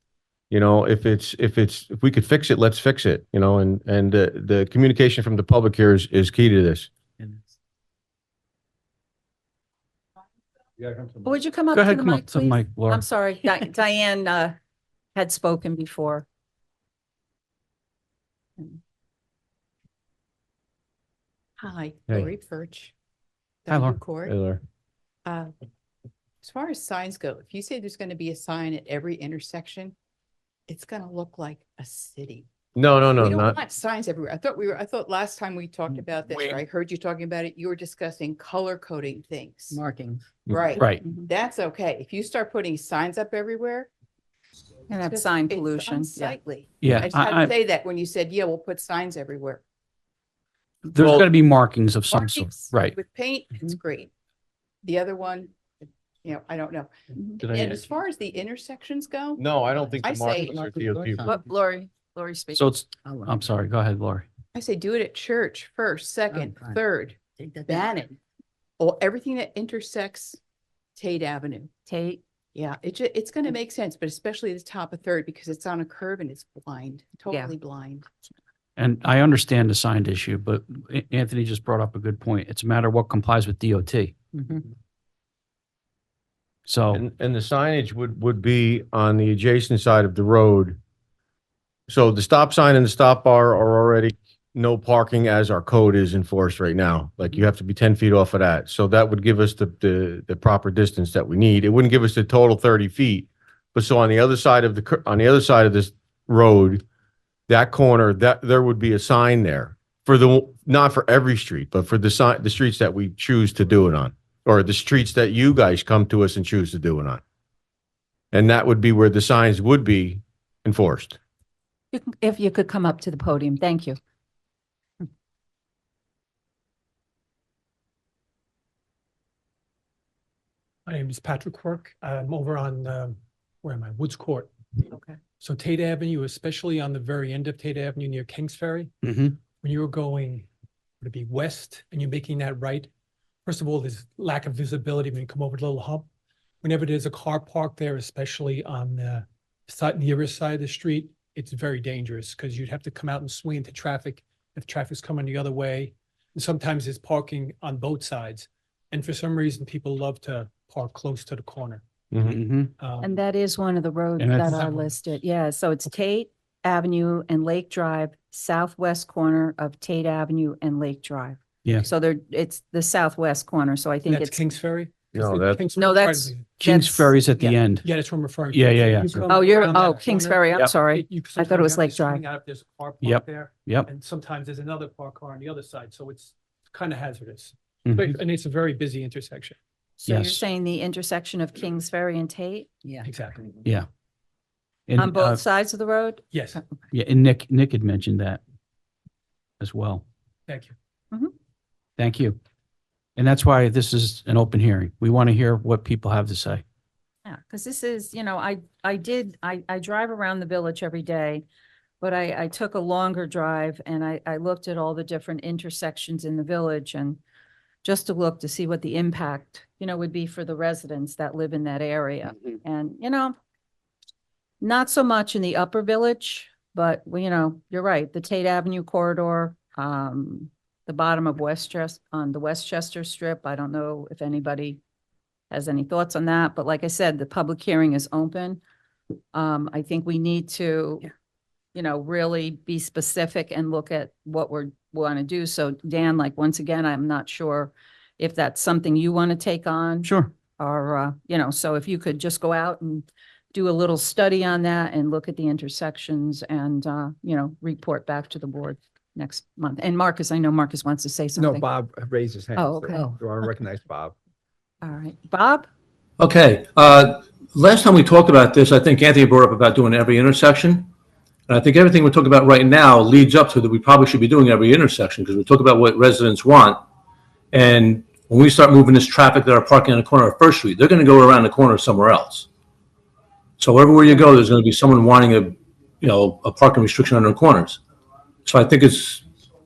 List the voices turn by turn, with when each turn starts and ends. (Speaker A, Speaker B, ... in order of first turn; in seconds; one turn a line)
Speaker A: 0.5-6.9
Speaker B: 11.2-14.5
Speaker C: 11.7-13.0
Speaker B: 15.1-16.2
Speaker D: 21.6-22.9
Speaker D: 23.6-24.3
Speaker C: 23.7-24.0
Speaker A: 24.2-24.6
Speaker D: 25.2-25.5
Speaker D: 26.4-29.9
Speaker D: 30.7-32.5
Speaker A: 32.8-33.6
Speaker D: 33.0-39.8
Speaker E: 39.7-40.2
Speaker D: 40.5-43.9
Speaker C: 40.8-41.0
Speaker B: 44.9-46.4
Speaker D: 45.0-49.6
Speaker C: 46.8-47.5
Speaker C: 50.8-53.0
Speaker D: 52.1-54.1
Speaker D: 54.8-59.5
Speaker C: 57.4-57.8
Speaker A: 59.4-61.4
Speaker D: 60.0-60.7
Speaker B: 61.2-62.6
Speaker C: 62.5-64.2
Speaker E: 63.0-63.5
Speaker D: 64.5-68.1
Speaker E: 66.3-66.8
Speaker E: 67.3-68.0
Speaker D: 68.8-70.4
Speaker D: 71.0-71.7
Speaker B: 71.9-72.2
Speaker D: 72.5-78.1
Speaker C: 78.8-84.1
Speaker C: 86.7-87.0
Speaker A: 86.9-90.8
Speaker A: 91.9-106.8
Speaker A: 107.5-117.2
Speaker A: 118.3-121.2
Speaker B: 121.9-124.0
Speaker F: 130.8-134.5
Speaker B: 134.8-135.2
Speaker F: 135.4-138.9
Speaker C: 139.0-139.4
Speaker F: 139.6-140.5
Speaker F: 141.0-142.9
Speaker F: 143.4-146.1
Speaker F: 146.6-161.8
Speaker A: 162.1-162.4
Speaker C: 162.2-162.7
Speaker F: 162.8-163.1
Speaker B: 163.0-174.4
Speaker C: 164.2-164.7
Speaker F: 164.5-164.9
Speaker F: 174.1-176.5
Speaker A: 175.1-175.6
Speaker B: 175.8-177.6
Speaker C: 176.6-177.9
Speaker F: 177.8-189.6
Speaker C: 178.5-179.5
Speaker B: 179.3-182.2
Speaker C: 180.5-180.8
Speaker C: 183.0-183.9
Speaker C: 187.8-188.2
Speaker B: 190.0-192.7
Speaker C: 190.1-190.4
Speaker F: 193.0-193.4
Speaker C: 194.9-195.4
Speaker B: 195.0-196.5
Speaker F: 196.3-196.6
Speaker C: 196.9-198.4
Speaker C: 199.6-200.0
Speaker F: 200.5-200.7
Speaker C: 202.0-202.4
Speaker C: 203.2-206.6
Speaker B: 207.2-211.4
Speaker B: 212.0-217.2
Speaker B: 217.8-223.3
Speaker B: 224.6-234.8
Speaker B: 235.5-238.6
Speaker B: 239.3-241.1
Speaker B: 241.7-261.7
Speaker C: 250.0-250.3
Speaker G: 261.4-264.1
Speaker B: 262.6-263.1
Speaker B: 264.8-265.7
Speaker H: 266.2-270.9
Speaker H: 271.5-276.8
Speaker H: 277.5-282.5
Speaker H: 283.6-287.8
Speaker H: 288.4-289.2